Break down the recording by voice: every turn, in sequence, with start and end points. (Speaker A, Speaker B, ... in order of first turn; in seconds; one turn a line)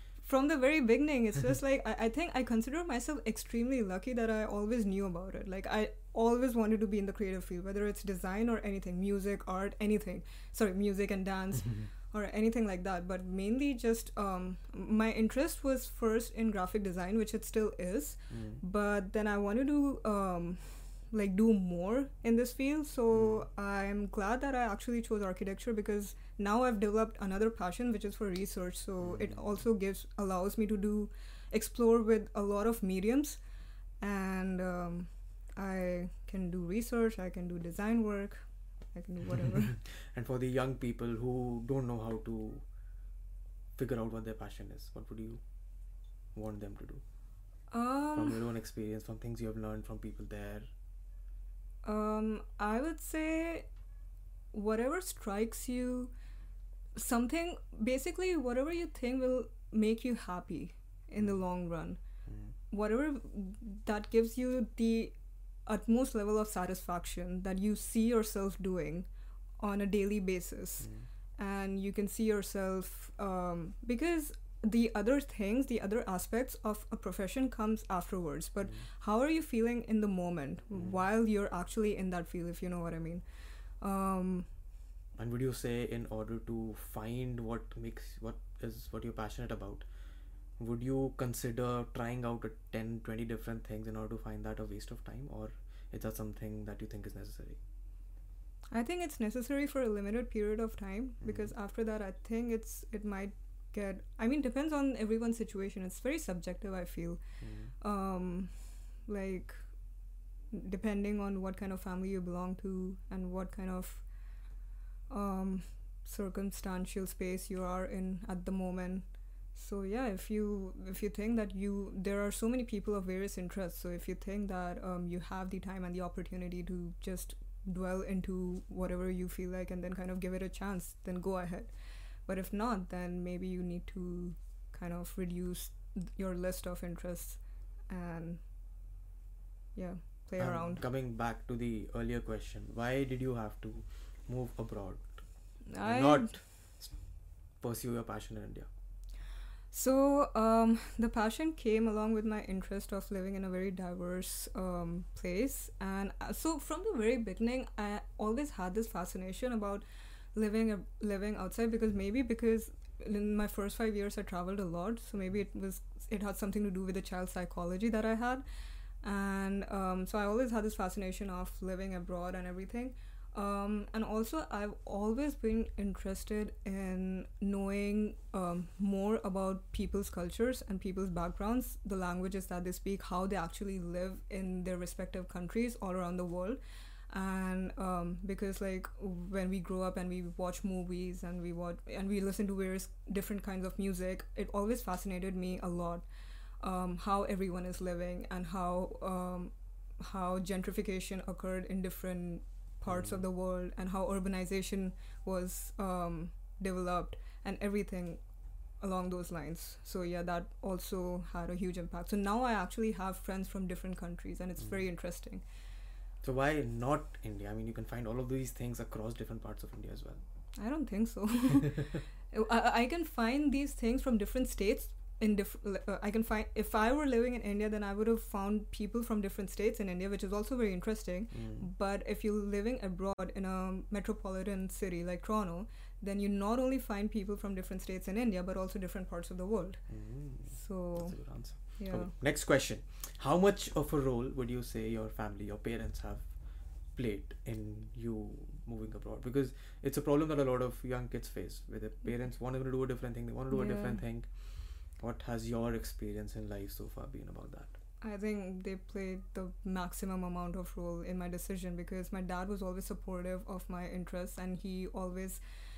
Speaker A: 0.2-33.4
Speaker B: 18.3-18.6
Speaker B: 23.1-23.5
Speaker B: 29.0-29.4
Speaker A: 34.0-39.7
Speaker B: 39.4-42.6
Speaker B: 43.8-45.4
Speaker B: 46.3-47.0
Speaker A: 47.7-48.4
Speaker B: 48.1-50.7
Speaker A: 51.8-53.7
Speaker A: 54.5-56.1
Speaker A: 56.9-62.0
Speaker B: 62.2-62.5
Speaker A: 62.7-65.1
Speaker A: 65.7-69.1
Speaker A: 69.6-83.2
Speaker B: 70.8-71.1
Speaker B: 80.7-81.0
Speaker A: 83.8-84.5
Speaker B: 85.2-89.9
Speaker B: 90.6-97.6
Speaker A: 98.7-107.2
Speaker B: 101.2-101.5
Speaker B: 107.4-107.7
Speaker A: 107.8-109.7
Speaker A: 110.5-114.1
Speaker A: 115.1-131.7
Speaker A: 132.2-138.4
Speaker A: 139.7-140.8
Speaker B: 140.4-145.2
Speaker A: 145.7-146.4
Speaker B: 145.8-147.0
Speaker B: 147.6-148.7
Speaker A: 149.7-168.4
Speaker A: 169.0-186.6
Speaker A: 187.1-196.0
Speaker A: 196.6-208.2
Speaker B: 202.9-203.2
Speaker A: 208.8-215.4
Speaker B: 216.2-220.2
Speaker A: 220.6-239.8
Speaker B: 231.3-231.7
Speaker B: 239.9-246.3
Speaker A: 240.5-242.1
Speaker B: 246.9-257.8
Speaker A: 253.5-254.0
Speaker A: 258.0-265.4